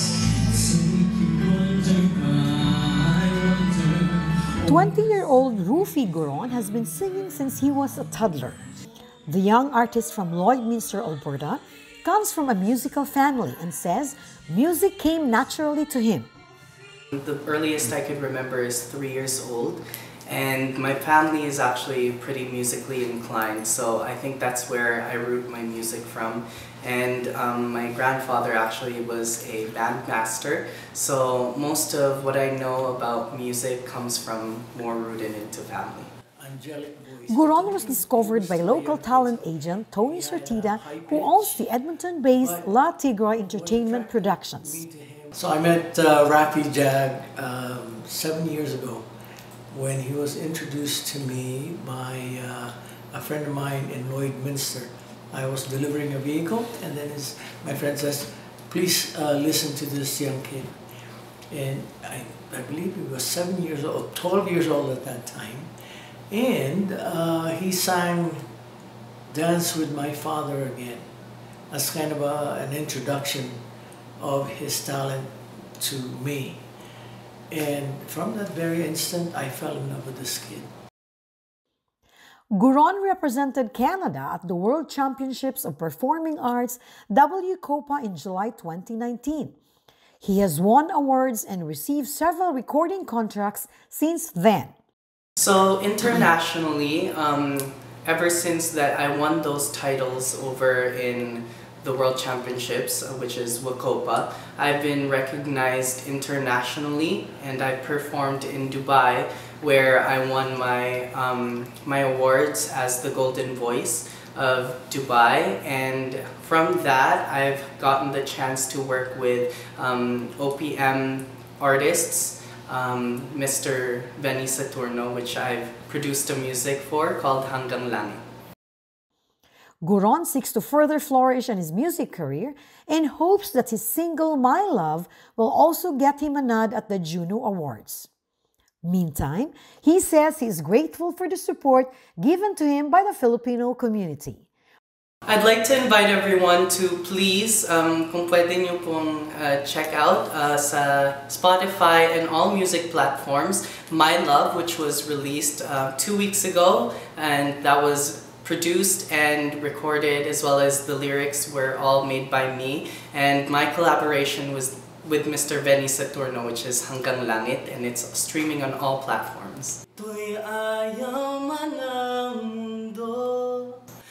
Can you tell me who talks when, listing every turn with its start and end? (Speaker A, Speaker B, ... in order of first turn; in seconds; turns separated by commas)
Speaker A: 0.2-4.9, Speaker B: 4.7-8.6, Speaker B: 9.3-16.3, Speaker C: 17.1-36.1, Speaker A: 36.4-41.7, Speaker B: 37.3-44.8, Speaker A: 42.3-42.8, Speaker A: 43.4-49.0, Speaker A: 49.7-60.7, Speaker A: 61.5-65.7, Speaker A: 66.3-68.4, Speaker A: 69.3-71.0, Speaker A: 71.7-73.6, Speaker A: 74.2-75.3, Speaker A: 75.8-76.6, Speaker A: 77.5-80.7, Speaker B: 82.5-89.5, Speaker B: 90.2-94.7, Speaker C: 95.4-128.2, Speaker B: 129.8-138.1, Speaker B: 138.8-144.4, Speaker C: 145.2-169.8, Speaker A: 170.0-173.8